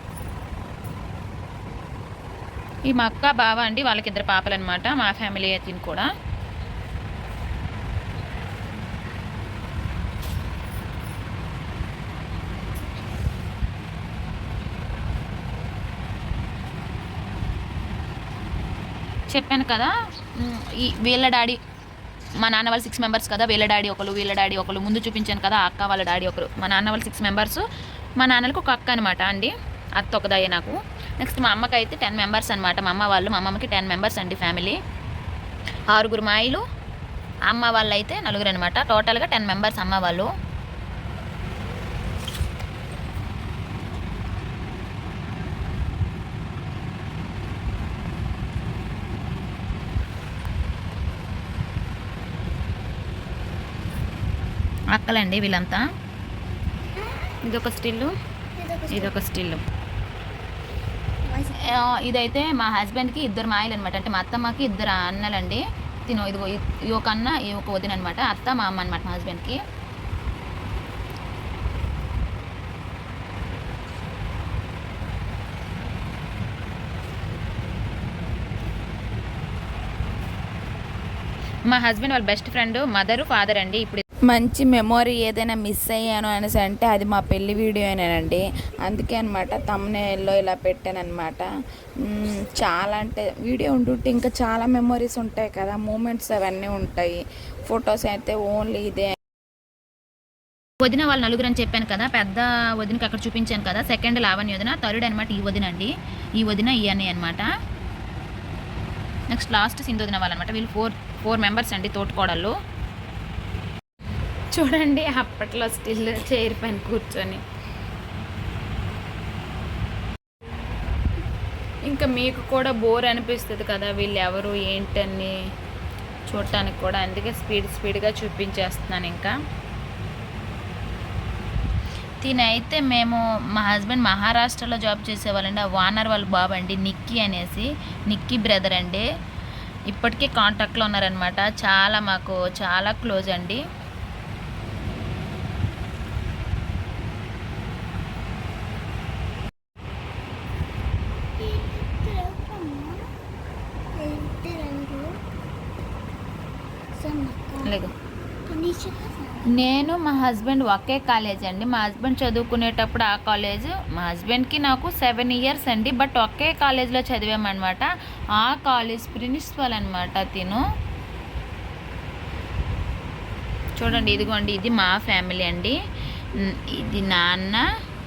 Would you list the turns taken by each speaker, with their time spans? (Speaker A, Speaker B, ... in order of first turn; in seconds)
Speaker A: 2.9-6.1, 19.3-21.6, 22.4-27.6, 28.2-34.8, 35.9-36.6, 37.5-40.3, 54.9-55.8, 57.4-58.1, 58.9-59.6, 61.5-69.6, 81.7-84.0, 100.8-107.5, 109.3-112.5, 114.5-117.4, 121.8-125.3, 126.3-129.3, 132.2-139.0, 139.9-143.6, 157.6-157.9, 159.5-170.6, 173.8-175.8, 176.3-177.6
Speaker B: 58.6-59.1, 61.2-61.8, 151.4-153.1, 153.9-155.2, 157.0-157.7, 158.5-159.6
Speaker C: 84.3-91.5, 92.0-99.1